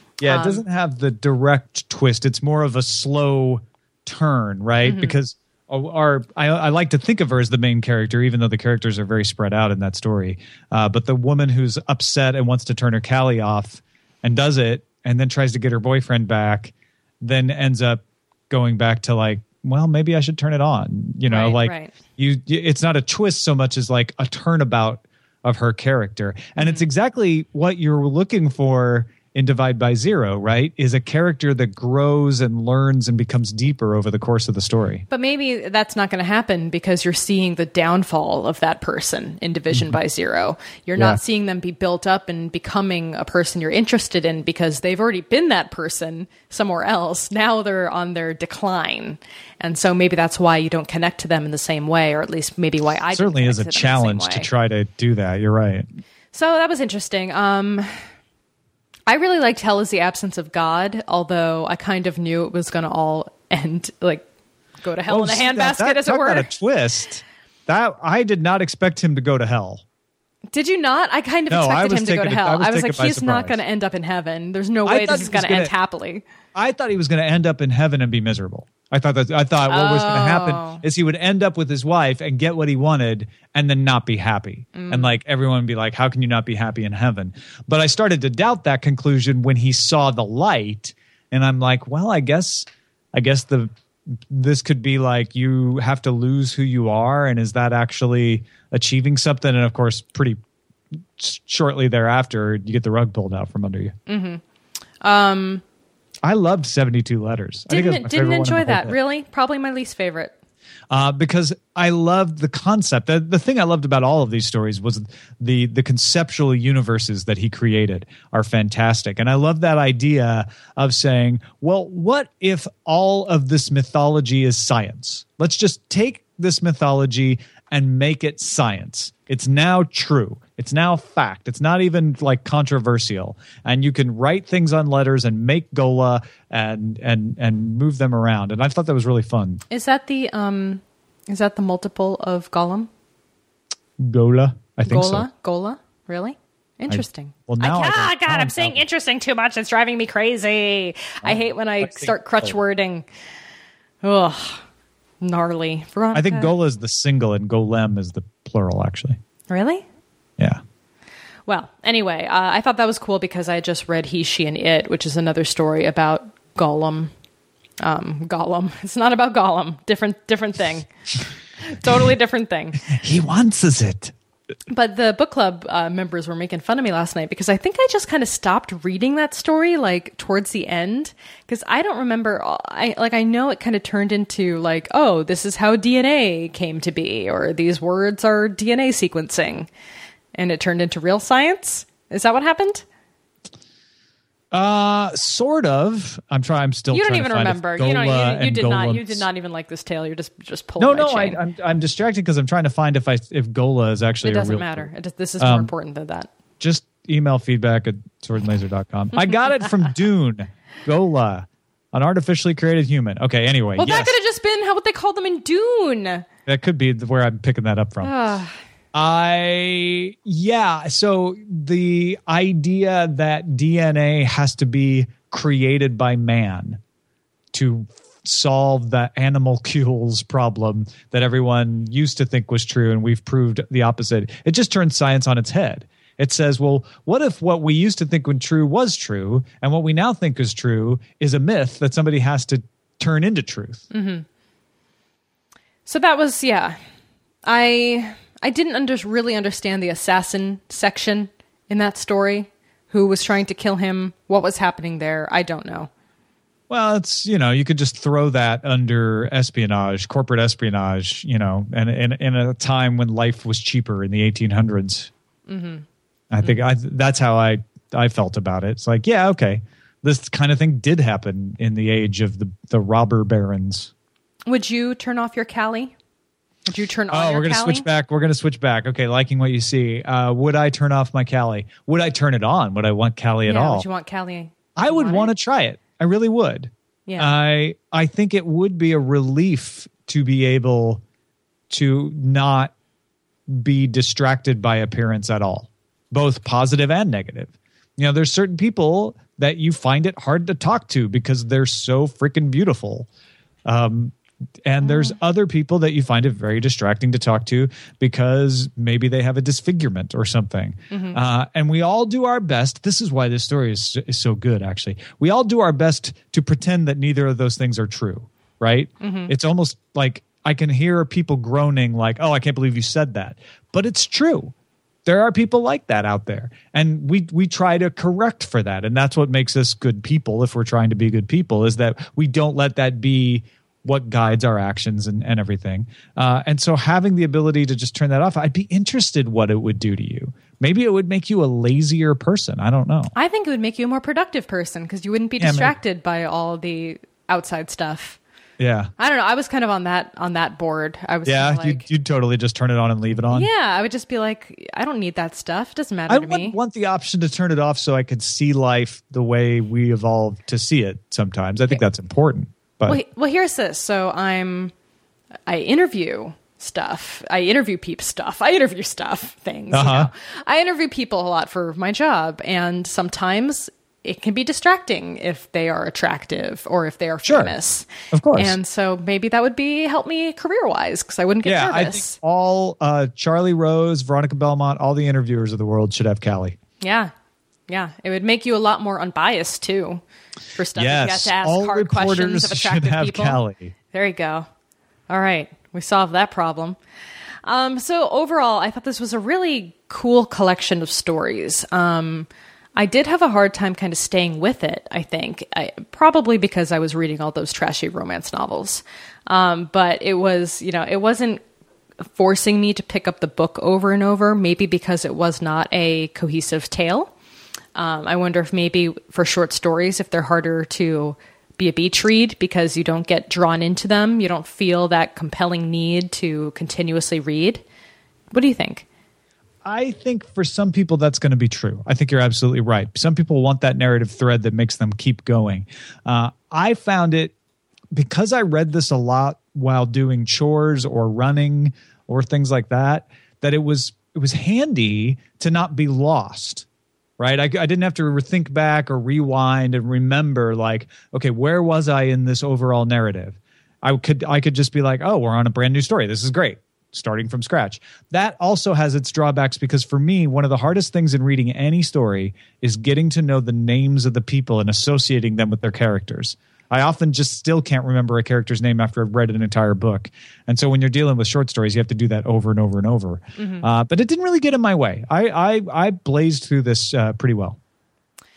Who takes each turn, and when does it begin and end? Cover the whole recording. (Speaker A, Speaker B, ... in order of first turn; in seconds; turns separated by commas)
Speaker A: 0.2-35.0, Speaker B: 0.2-0.6, Speaker B: 4.8-5.2, Speaker B: 21.3-21.9, Speaker B: 26.6-26.9, Speaker B: 35.1-54.5, Speaker A: 53.1-55.9, Speaker B: 56.3-57.9, Speaker B: 59.1-64.2, Speaker B: 64.8-66.5, Speaker A: 65.1-69.8, Speaker B: 70.5-76.2, Speaker A: 71.5-73.6, Speaker A: 74.8-75.7, Speaker A: 76.5-93.7, Speaker B: 79.7-80.8, Speaker B: 84.7-85.2, Speaker A: 94.3-100.4, Speaker A: 101.2-103.9, Speaker B: 104.1-104.4, Speaker B: 105.0-105.6, Speaker A: 106.2-109.0, Speaker B: 107.7-110.3, Speaker A: 110.9-139.6, Speaker B: 139.7-142.9, Speaker A: 144.0-145.3, Speaker B: 144.8-153.1, Speaker A: 146.9-148.8, Speaker A: 151.2-152.5, Speaker B: 154.0-154.6, Speaker B: 155.2-156.5, Speaker A: 156.1-159.2, Speaker B: 159.5-159.8, Speaker B: 161.5-167.1, Speaker B: 167.8-170.9, Speaker B: 171.6-172.8, Speaker A: 172.9-174.1, Speaker B: 174.7-189.7, Speaker B: 190.3-192.8, Speaker A: 194.5-199.2, Speaker B: 196.9-201.4, Speaker A: 200.8-204.9, Speaker B: 204.2-206.3, Speaker A: 205.4-205.7, Speaker A: 206.6-214.1, Speaker B: 213.8-216.2, Speaker A: 216.4-218.1, Speaker B: 218.0-218.6, Speaker A: 218.9-226.8, Speaker A: 227.5-243.8, Speaker B: 243.9-244.2, Speaker B: 245.8-246.8, Speaker B: 247.4-255.9, Speaker A: 256.7-265.1, Speaker B: 265.5-265.9, Speaker A: 266.3-273.9, Speaker B: 274.5-275.9, Speaker B: 276.7-277.9, Speaker A: 277.1-283.9, Speaker B: 283.5-285.3, Speaker A: 284.8-291.0, Speaker B: 287.1-287.3, Speaker A: 291.7-292.7, Speaker A: 293.5-303.1, Speaker A: 303.6-324.5, Speaker B: 304.8-305.1, Speaker B: 310.9-311.2, Speaker B: 319.0-319.3, Speaker A: 325.0-343.1, Speaker B: 343.1-348.2, Speaker A: 345.4-345.8, Speaker A: 348.6-348.9, Speaker B: 349.0-351.9, Speaker A: 351.2-353.5, Speaker B: 353.3-356.6, Speaker A: 356.1-363.0, Speaker B: 362.9-364.7, Speaker B: 365.5-382.1, Speaker A: 369.7-370.1, Speaker A: 377.2-377.5, Speaker A: 378.1-378.6, Speaker A: 381.4-386.6, Speaker B: 386.8-387.1, Speaker B: 387.7-390.0, Speaker B: 390.5-393.4, Speaker A: 390.8-393.7, Speaker B: 393.9-394.5, Speaker B: 395.1-396.8, Speaker B: 397.4-411.4, Speaker B: 412.1-417.1, Speaker B: 417.7-427.6, Speaker B: 428.3-428.8, Speaker A: 429.6-437.3, Speaker A: 437.9-446.6, Speaker A: 447.2-477.6, Speaker B: 473.4-473.6